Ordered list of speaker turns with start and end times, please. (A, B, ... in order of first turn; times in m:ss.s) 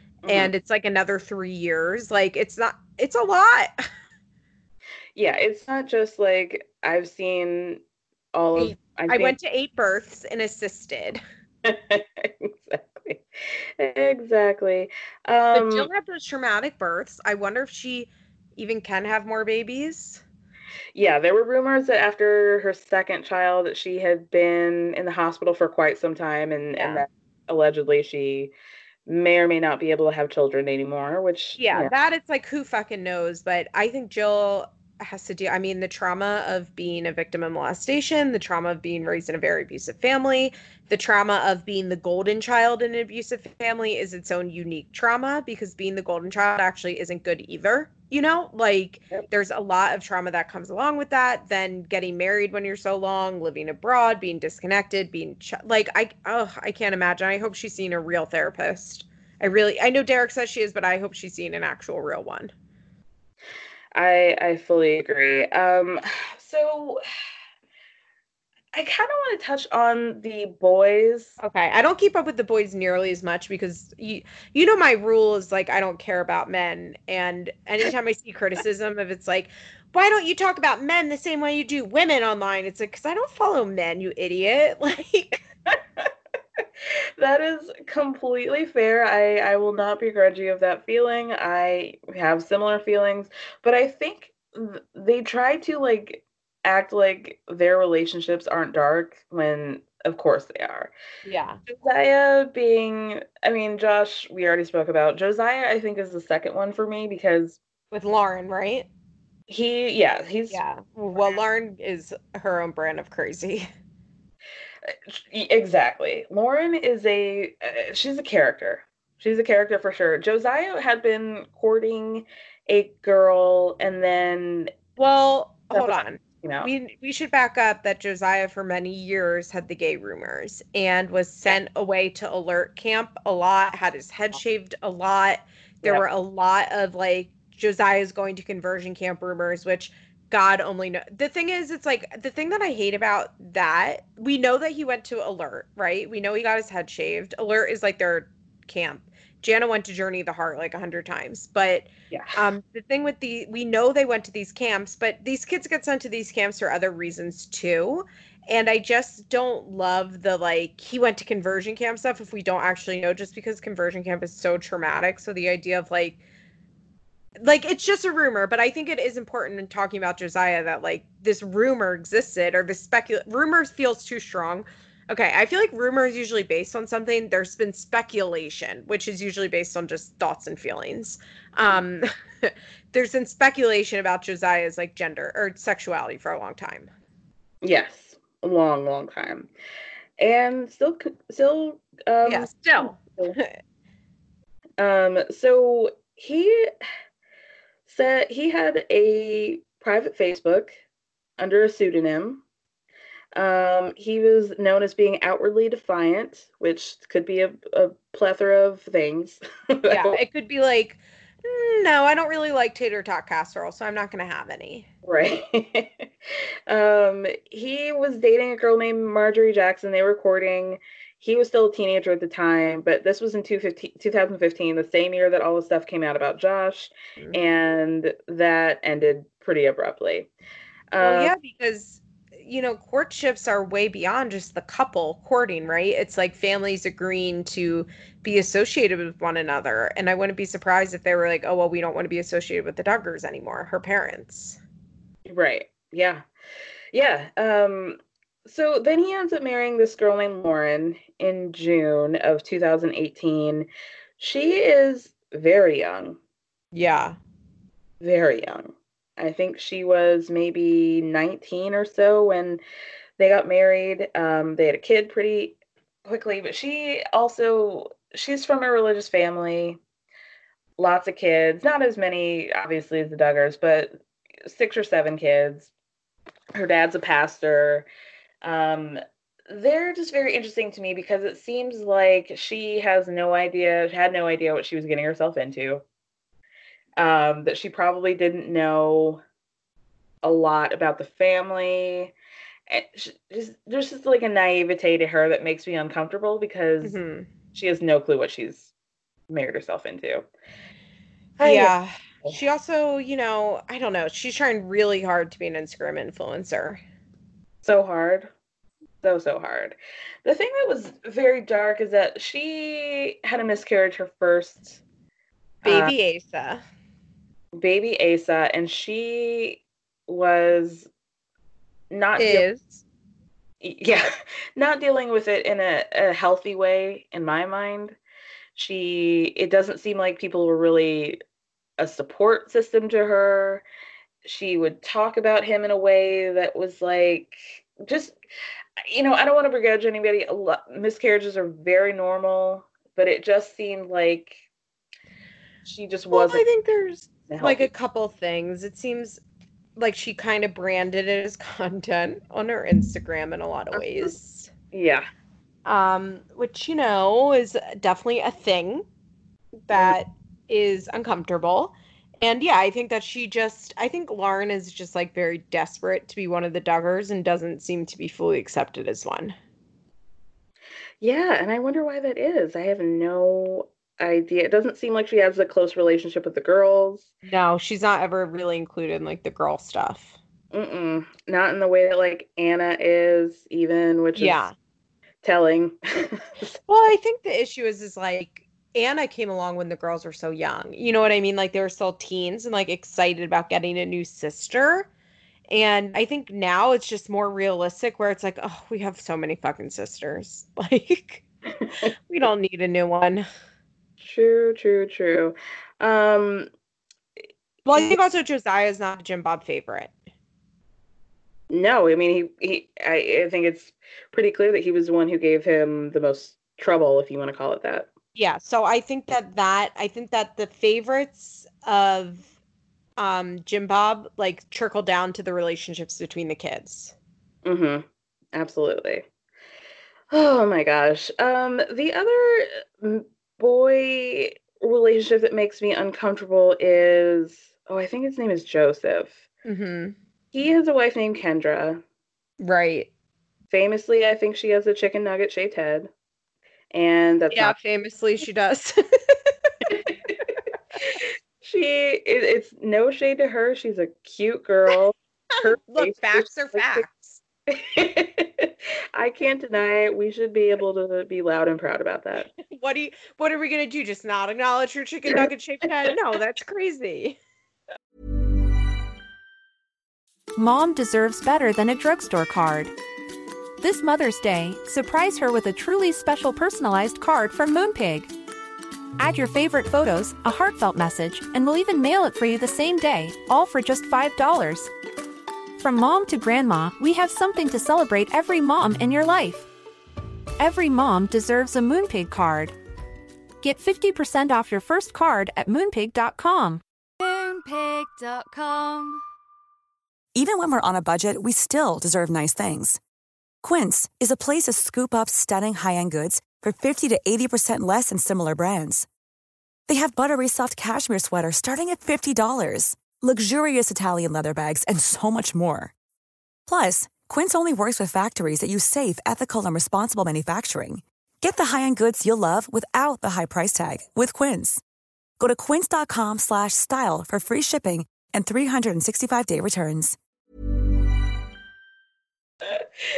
0:00.2-0:00.5 A
0:00.3-0:03.8 B
0:05.2-0:07.8 A
0:08.3-0:09.4 A
0:08.6-0:11.2 B
0:11.6-0:13.2 A
0:13.8-0:15.9 A
0:15.5-0:20.2 B
0:20.9-0:28.5 A
0:26.7-0:27.0 B
0:29.1-0:31.9 A
0:31.6-1:02.5 B
1:03.9-1:07.0 A
1:08.7-1:11.3 A
1:11.4-1:25.4 B
1:25.7-1:26.1 A
1:27.2-1:40.9 A
1:41.2-1:41.6 B
1:41.6-1:47.6 A
1:47.9-1:48.9 B
1:49.5-1:50.6 A
1:50.5-1:53.7 B
1:54.9-2:04.7 A
2:05.0-2:46.2 B
2:05.7-2:06.7 A
2:32.1-2:32.4 A
2:47.4-3:06.9 B
3:07.6-3:09.5 A
3:10.2-3:13.4 A
3:12.2-3:13.5 B
3:14.8-3:16.7 A
3:17.9-3:20.7 A
3:21.4-3:22.4 A
3:23.4-3:30.2 A
3:29.9-3:34.9 B
3:35.0-3:36.1 A
3:36.7-3:50.3 A
3:50.9-3:51.3 A
3:51.0-4:04.6 B
4:05.3-4:06.2 A
4:06.9-4:13.7 A
4:14.2-4:16.2 A
4:16.7-4:17.2 B
4:18.0-4:22.6 A
4:23.2-4:29.8 A
4:30.8-4:35.7 A
4:36.6-4:37.9 A
4:38.4-4:45.8 A
4:47.0-4:49.2 A
4:50.2-4:52.1 A
4:52.7-4:57.0 A
4:56.8-4:57.3 B
4:57.5-4:58.7 A
4:59.3-5:00.2 A
5:01.4-5:06.8 B
5:01.4-5:02.4 A
5:07.6-5:08.3 A
5:09.0-5:14.8 A
5:15.6-5:16.6 B
5:15.6-5:15.9 A
5:17.6-5:20.9 A
5:21.9-5:22.5 A
5:22.2-5:22.8 B
5:23.6-5:28.0 A
5:28.6-5:31.2 A
5:31.8-5:33.6 A
5:34.2-5:38.2 A
5:38.8-5:44.4 A
5:45.6-5:46.4 A
5:46.1-5:49.2 B
5:47.3-5:47.7 A
5:49.8-5:54.5 B
5:53.7-5:54.1 A
5:54.7-5:55.0 A
5:55.6-5:58.8 B
5:59.7-6:09.4 B
6:11.0-6:17.1 A
6:17.2-6:20.2 B
6:20.5-6:24.4 A
6:24.2-6:24.5 B
6:25.2-6:26.6 A
6:26.7-6:34.9 B
6:35.5-6:41.2 B
6:42.1-6:43.2 B
6:44.0-6:46.5 A
6:47.6-6:49.9 B
6:47.7-6:48.0 A
6:51.5-6:57.9 A
6:58.2-7:02.3 B
7:03.0-7:06.9 B
7:07.4-7:09.0 A
7:10.1-7:19.2 A
7:19.4-7:19.9 B
7:20.3-7:21.8 A
7:22.4-7:22.9 B
7:23.5-7:25.9 A
7:26.7-7:27.6 A
7:27.3-7:29.2 B
7:31.4-7:36.9 A
7:35.4-7:37.2 B
7:37.5-7:42.3 A
7:42.4-7:47.2 B
7:45.1-7:45.9 A
7:50.4-7:52.7 C
7:53.6-7:58.1 C
7:59.0-8:04.7 C
8:05.6-8:09.5 C
8:10.4-8:12.6 C
8:13.4-8:16.6 C
8:17.0-8:19.0 D
8:20.2-8:22.8 E
8:23.4-8:28.9 E
8:29.7-8:35.7 E
8:36.5-8:44.6 E
8:45.2-8:50.0 E